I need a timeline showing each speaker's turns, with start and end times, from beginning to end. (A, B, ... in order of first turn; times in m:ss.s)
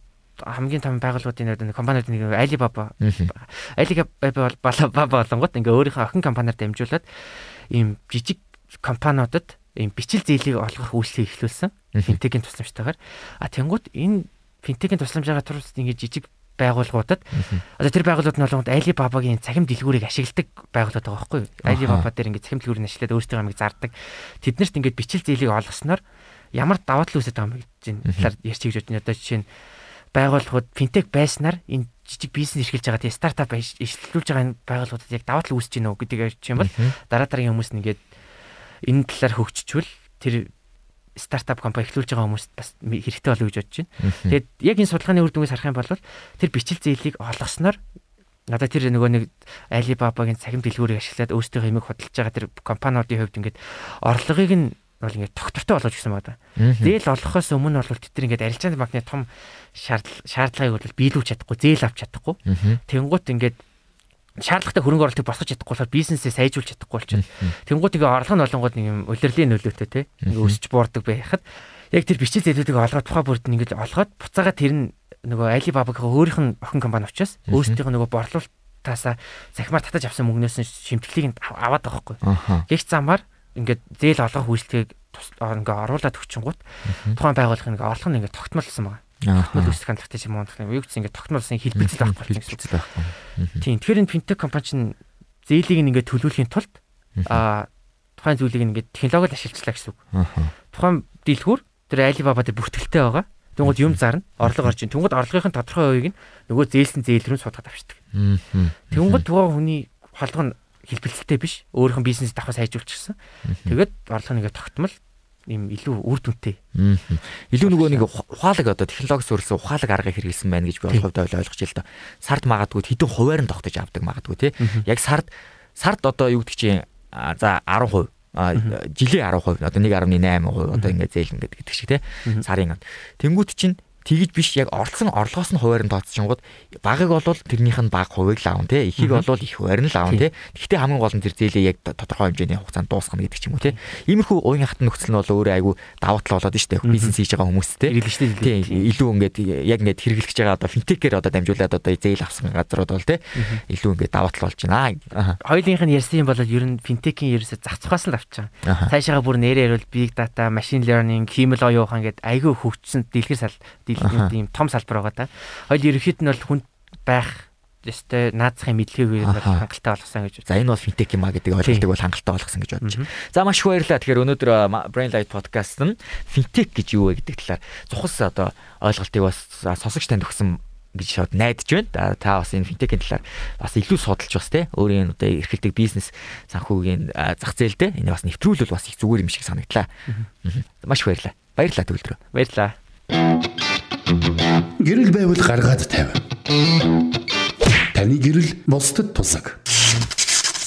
0:00.4-0:26.0 A
0:03.0-0:03.3 B
0:11.9-0:12.2 B
0:17.4-0:17.6 B
0:21.6-0:22.1 B
0:26.5-0:29.5 A
0:30.1-0:38.0 A
0:36.6-0:36.9 B
0:38.8-0:40.5 A
0:41.2-0:47.8 A
0:44.0-0:44.4 B
0:48.5-1:03.6 A
0:56.6-0:57.0 B
1:02.5-1:02.8 B
1:04.4-1:32.8 A
1:07.1-1:07.5 B
1:10.2-1:10.6 B
1:17.5-1:17.8 B
1:22.2-1:22.7 B
1:26.9-1:27.2 B
1:29.2-1:29.8 B
1:31.8-1:33.6 B
1:33.6-1:40.0 A
1:37.2-1:37.4 B
1:40.1-1:40.5 B
1:40.7-1:48.0 A
1:43.6-1:44.7 B
1:48.1-1:49.2 B
1:48.9-1:55.0 A
1:53.5-1:53.8 B
1:55.5-1:56.6 A
1:56.8-2:35.4 B
1:57.6-1:58.1 A
2:04.6-2:04.8 A
2:19.0-2:19.2 A
2:26.8-2:27.2 A
2:27.9-2:28.9 A
2:33.4-2:33.6 A
2:35.4-2:50.5 A
2:38.6-2:38.9 B
2:44.0-2:44.3 B
2:49.2-2:49.6 B
2:50.5-3:09.9 B
2:51.6-2:51.9 A
2:52.8-2:53.1 A
3:10.4-3:12.2 B
3:12.3-3:12.8 A
3:14.8-3:16.2 C
3:17.9-3:19.6 C